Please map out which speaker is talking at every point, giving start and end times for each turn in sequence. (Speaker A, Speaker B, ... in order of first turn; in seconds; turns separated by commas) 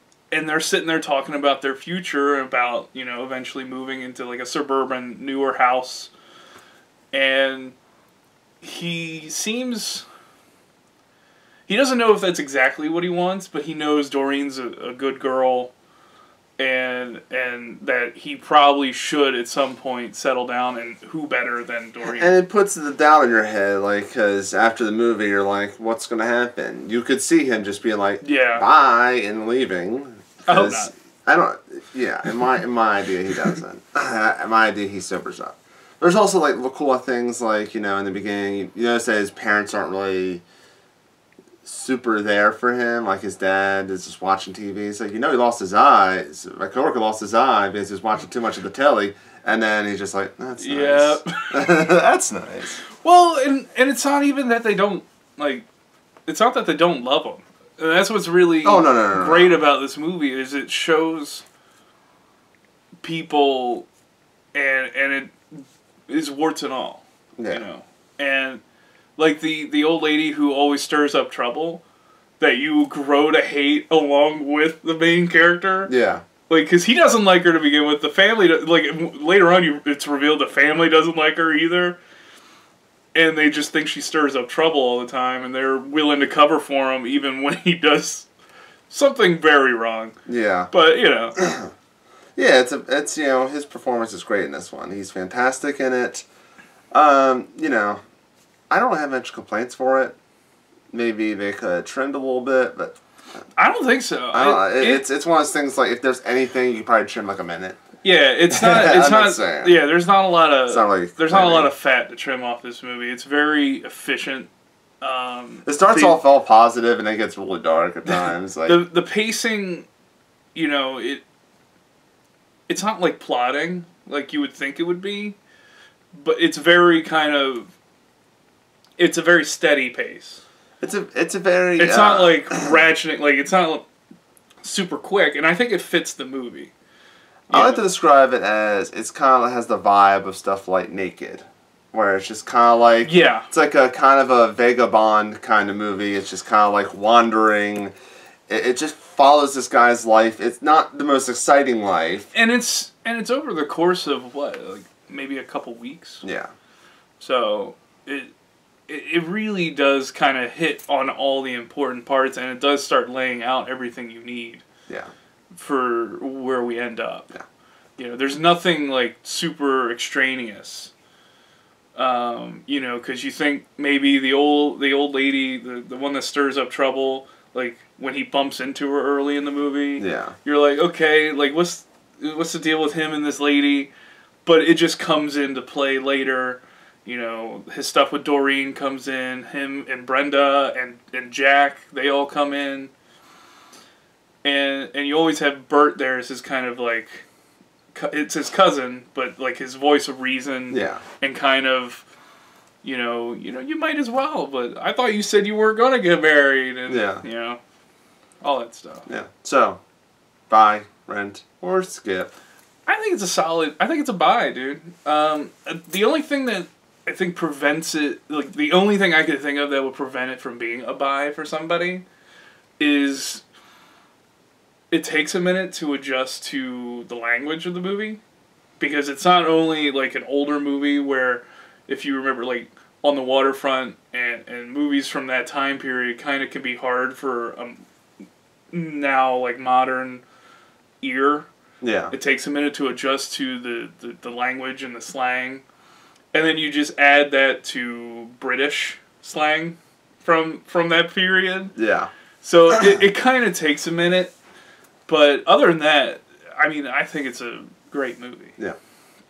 Speaker A: 0.3-6.1, Speaker A: 7.1-7.8, Speaker A: 8.6-10.1, Speaker A: 11.7-15.7, Speaker A: 16.6-22.4, Speaker B: 22.1-40.4, Speaker A: 28.2-28.6, Speaker A: 30.4-30.9, Speaker B: 41.6-52.8, Speaker A: 50.6-51.7, Speaker A: 53.0-55.7, Speaker A: 56.2-61.4, Speaker B: 58.6-59.6, Speaker A: 63.0-63.9, Speaker A: 64.5-68.6, Speaker B: 67.4-67.6, Speaker A: 69.2-71.8, Speaker A: 72.4-75.9, Speaker B: 75.9-76.2, Speaker A: 76.5-82.0, Speaker A: 83.1-88.3, Speaker A: 88.9-90.2, Speaker B: 90.3-90.7, Speaker A: 90.7-91.4, Speaker B: 91.4-91.7, Speaker B: 92.4-96.2, Speaker B: 96.9-98.0, Speaker B: 98.7-100.2, Speaker B: 100.9-103.0, Speaker A: 103.6-105.0, Speaker B: 104.3-107.8, Speaker A: 108.0-114.5, Speaker B: 108.5-109.8, Speaker B: 110.7-111.7, Speaker A: 115.0-116.2, Speaker B: 115.6-118.8, Speaker A: 118.1-119.9, Speaker A: 120.5-121.2, Speaker A: 122.7-125.4, Speaker A: 126.1-127.7, Speaker A: 129.0-130.4, Speaker B: 130.8-132.8, Speaker A: 131.8-133.8, Speaker A: 134.6-136.7, Speaker B: 137.5-147.9, Speaker A: 137.5-137.8, Speaker A: 143.0-143.5, Speaker B: 148.5-152.3, Speaker A: 152.3-156.2, Speaker B: 156.2-156.5, Speaker A: 157.2-158.3, Speaker A: 158.9-164.6, Speaker A: 165.5-167.3, Speaker A: 168.0-170.9, Speaker A: 172.0-183.9, Speaker B: 180.0-180.4, Speaker A: 184.4-192.9, Speaker A: 194.4-197.2, Speaker A: 197.9-202.0, Speaker B: 200.7-201.0, Speaker A: 202.8-207.6, Speaker B: 206.9-207.2, Speaker A: 208.4-209.1, Speaker B: 209.1-209.8, Speaker B: 210.5-212.3, Speaker A: 212.9-222.0, Speaker A: 222.8-223.4, Speaker A: 224.9-228.2, Speaker A: 228.8-237.8, Speaker A: 238.7-240.2, Speaker A: 241.0-241.5, Speaker B: 241.8-242.1, Speaker A: 242.1-245.6, Speaker A: 246.3-251.7, Speaker B: 251.8-252.1, Speaker A: 252.4-254.3, Speaker B: 252.7-253.0, Speaker A: 255.1-258.5